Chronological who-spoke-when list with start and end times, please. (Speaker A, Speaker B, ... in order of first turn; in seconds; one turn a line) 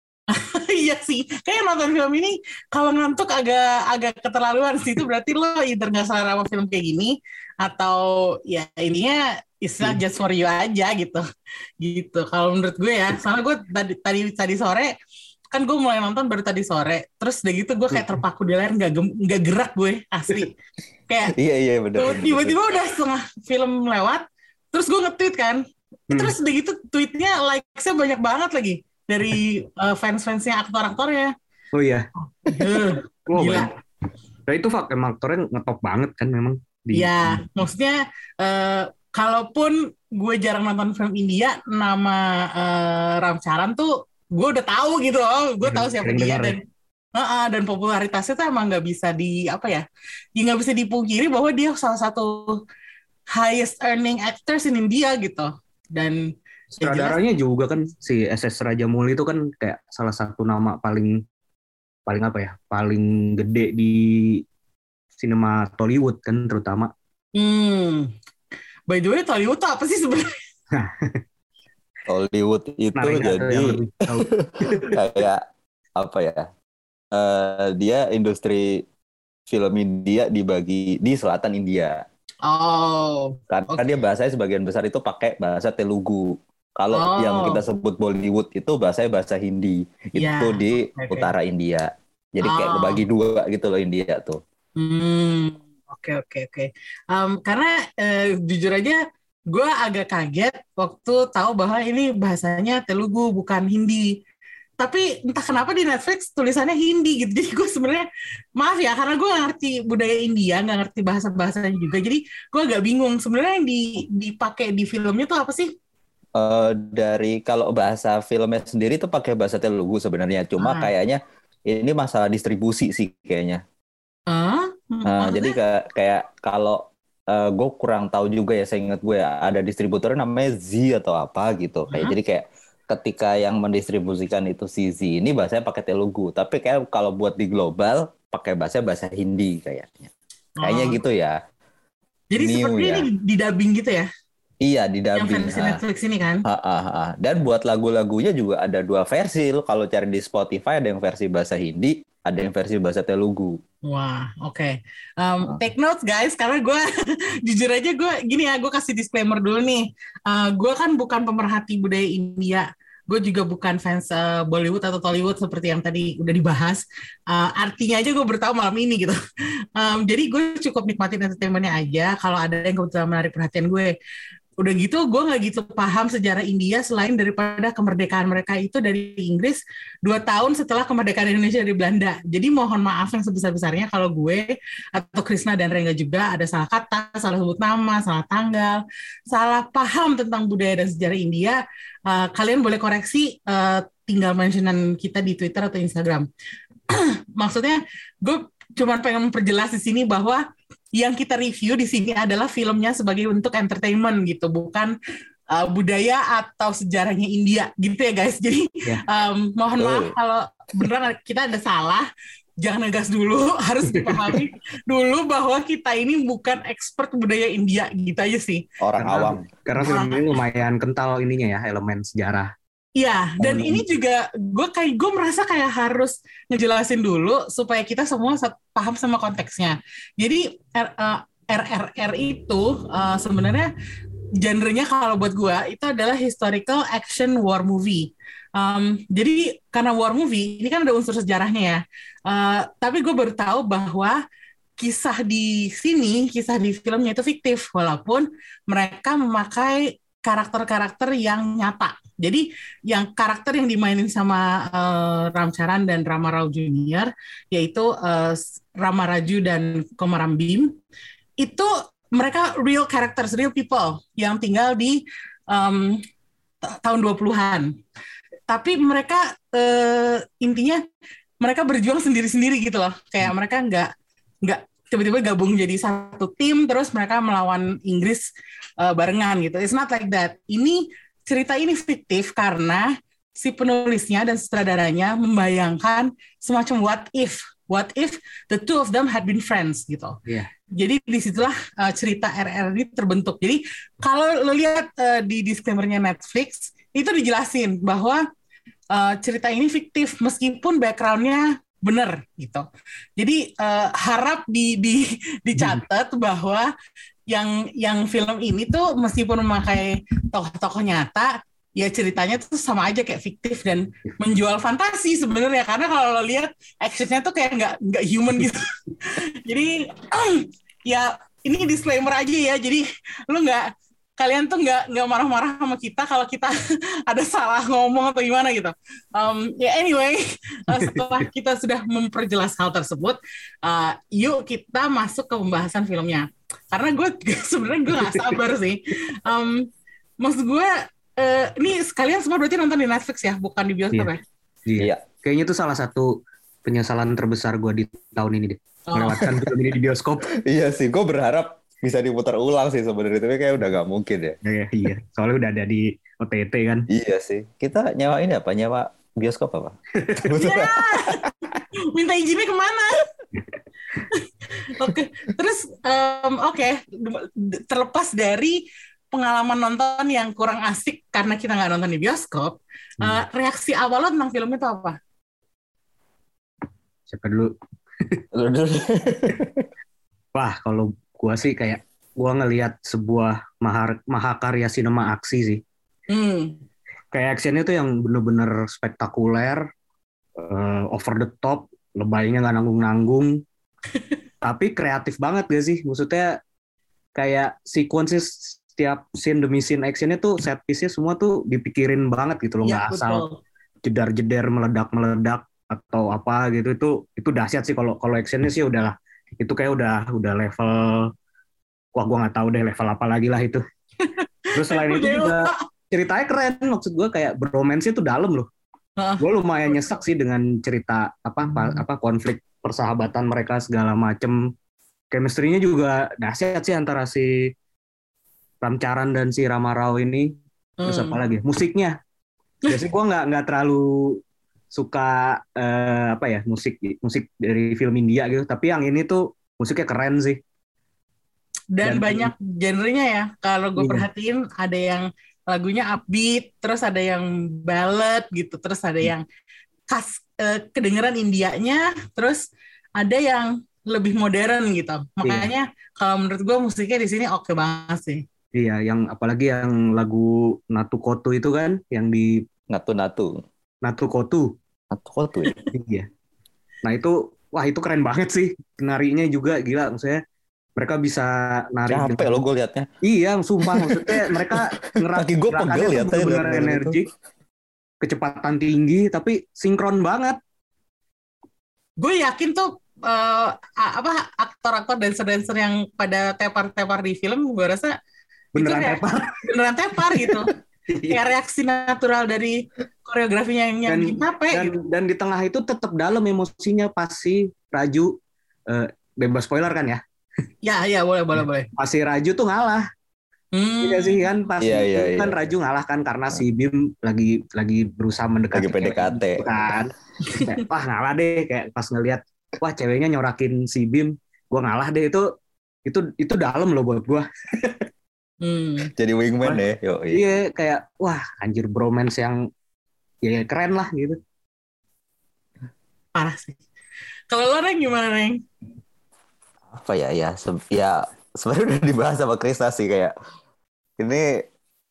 Speaker A: 0.3-11.2
Speaker A: 11.8-14.9
Speaker A: 15.5-20.5
Speaker A: 21.1-21.3
Speaker B: 21.3-22.6
Speaker A: 22.0-31.3
Speaker C: 31.7-32.1
Speaker A: 32.5-33.7
Speaker C: 33.3-33.7
Speaker C: 34.5-37.5
Speaker A: 36.9-46.6
Speaker C: 45.6-46.6
Speaker A: 47.2-49.8
Speaker A: 50.4-52.6
Speaker A: 53.3-57.2
Speaker C: 56.8-61.2
Speaker C: 62.1-64.4
Speaker C: 65.2-66.9
Speaker A: 67.4-68.1
Speaker A: 68.9-70.4
Speaker C: 70.7-71.2
Speaker B: 72.1-75.4
Speaker C: 73.0-75.0
Speaker B: 76.0-76.5
Speaker B: 77.1-78.8
Speaker B: 79.5-82.0
Speaker A: 82.5-83.9
Speaker B: 83.5-94.4
Speaker A: 86.9-87.6
Speaker A: 90.2-91.3
Speaker A: 92.4-93.0
Speaker A: 94.8-99.0
Speaker A: 99.5-104.1
Speaker A: 104.8-108.1
Speaker A: 108.6-115.7
Speaker B: 116.4-123.6
Speaker A: 120.6-120.9
Speaker A: 124.3-125.5
Speaker B: 125.0-140.1
Speaker A: 140.6-141.0
Speaker B: 140.6-141.4
Speaker A: 142.3-144.1
Speaker B: 142.4-143.1
Speaker B: 144.6-145.8
Speaker A: 145.2-146.4
Speaker B: 146.4-153.6
Speaker A: 153.9-156.9
Speaker A: 157.4-169.2
Speaker A: 169.8-173.9
Speaker A: 174.6-196.3
Speaker A: 196.9-200.4
Speaker A: 201.0-204.9
Speaker A: 205.5-212.1
Speaker B: 209.8-210.1
Speaker A: 212.6-218.7
Speaker C: 213.9-214.4
Speaker B: 218.8-219.5
Speaker C: 219.0-222.5
Speaker A: 219.8-220.3
Speaker A: 223.0-233.7
Speaker C: 223.4-223.8
Speaker A: 234.4-244.2
Speaker A: 244.8-260.7
Speaker A: 261.4-265.0
Speaker A: 265.5-266.0
Speaker A: 266.7-267.7
Speaker A: 268.5-270.8
Speaker A: 271.4-273.9
Speaker A: 274.4-278.3
Speaker A: 278.8-290.2
Speaker A: 290.8-298.2
Speaker A: 298.9-302.6
Speaker A: 303.2-306.7
Speaker A: 307.3-323.7
Speaker A: 324.2-326.6
Speaker A: 327.1-339.7
Speaker C: 330.7-331.1
Speaker C: 338.0-338.4
Speaker A: 340.2-344.2
Speaker C: 344.7-346.1
Speaker C: 346.6-350.3
Speaker A: 348.9-349.2
Speaker B: 350.4-354.4
Speaker C: 354.4-356.9
Speaker B: 356.9-361.3
Speaker C: 360.0-360.4
Speaker A: 360.4-361.2
Speaker A: 361.9-363.0
Speaker A: 364.1-375.0
Speaker C: 377.1-377.5
Speaker B: 378.3-379.7
Speaker C: 380.4-385.6
Speaker A: 386.1-386.6
Speaker C: 387.1-389.6
Speaker C: 390.4-393.4
Speaker C: 394.4-396.4
Speaker C: 397.2-403.2
Speaker A: 402.6-403.4
Speaker C: 403.9-411.1
Speaker C: 411.9-413.6
Speaker A: 414.0-415.6
Speaker C: 414.6-418.5
Speaker A: 419.0-420.0
Speaker C: 419.2-424.5
Speaker C: 425.1-427.5
Speaker C: 428.6-430.3
Speaker A: 430.8-431.2
Speaker C: 430.9-432.0
Speaker C: 432.7-434.2
Speaker C: 434.7-440.4
Speaker A: 441.8-449.2
Speaker C: 441.8-442.3
Speaker C: 443.8-444.1
Speaker A: 449.9-452.4
Speaker A: 453.0-458.2
Speaker C: 455.2-455.5
Speaker C: 458.6-462.4
Speaker B: 462.7-463.4
Speaker C: 463.8-464.5
Speaker B: 464.9-465.5
Speaker C: 465.7-466.1
Speaker C: 466.8-470.2
Speaker C: 470.8-472.4
Speaker B: 471.9-472.9
Speaker C: 473.0-477.1
Speaker B: 473.6-477.0
Speaker C: 478.0-480.4
Speaker A: 482.0-487.9
Speaker C: 488.6-489.3
Speaker A: 488.6-490.5
Speaker C: 490.9-491.2
Speaker A: 491.1-494.7
Speaker C: 493.9-498.1
Speaker C: 498.7-500.0
Speaker A: 500.6-501.7
Speaker C: 501.8-502.9
Speaker A: 503.5-504.2
Speaker C: 503.8-515.2
Speaker B: 504.6-505.4
Speaker B: 508.5-509.5
Speaker C: 515.9-517.9
Speaker A: 518.4-518.9
Speaker B: 519.0-520.2
Speaker C: 519.4-522.4
Speaker C: 523.2-524.2
Speaker A: 526.2-526.6
Speaker A: 527.3-528.4
Speaker B: 529.7-533.1
Speaker B: 534.0-534.3